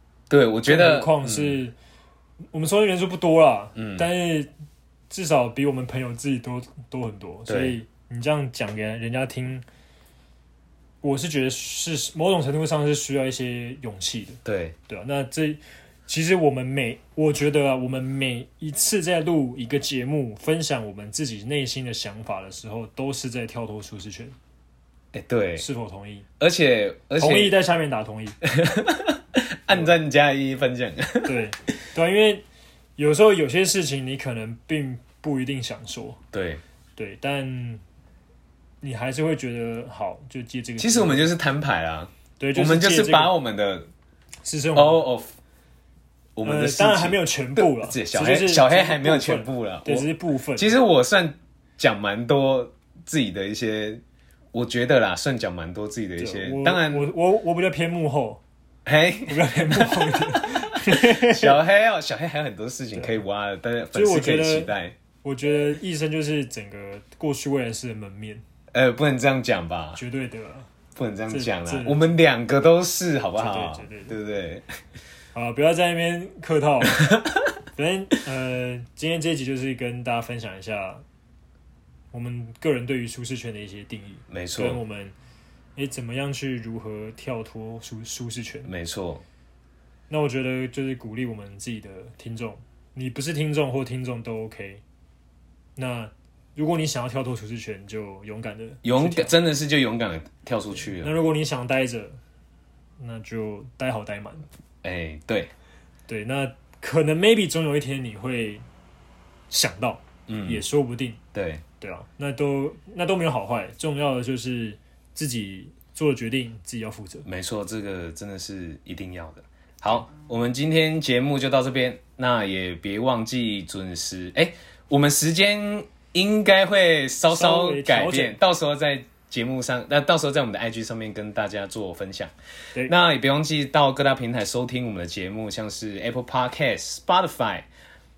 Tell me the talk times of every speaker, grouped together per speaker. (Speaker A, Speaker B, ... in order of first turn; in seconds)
Speaker A: 0.3-1.6, 3.8-4.1, 7.5-7.8, 14.4-14.7, 25.1-25.6, 26.4-27.6, 28.4-31.4, 36.3-36.6, 40.8-43.9, 44.7-45.3, 46.4-54.0, 54.5-57.1, 58.8-64.9, 68.7-70.0, 70.9-74.6, 76.9-77.4, 84.3-84.8, 88.6-89.2, 98.8-101.1, 104.8-105.5, 110.3-110.6, 111.3-111.6, 117.2-132.3, 132.8-137.7
Speaker B: 0.7-1.7, 2.5-4.5, 5.1-9.6, 11.0-24.4, 25.6-26.2, 27.2-28.4, 31.2-32.4, 33.0-36.2, 37.0-37.8, 38.8-41.3, 42.4-43.4, 44.4-45.0, 46.4-50.8, 56.2-58.4, 59.3-61.6, 62.9-63.2, 63.9-68.4, 70.0-70.7, 71.3-72.1, 73.4-74.2, 75.3-77.1, 77.7-81.0, 82.1-85.1, 85.8-88.7, 90.1-94.8, 95.8-99.3, 100.9-102.2, 103.0-104.5, 106.1-108.6, 109.5-111.2, 111.8-117.2, 127.3-128.3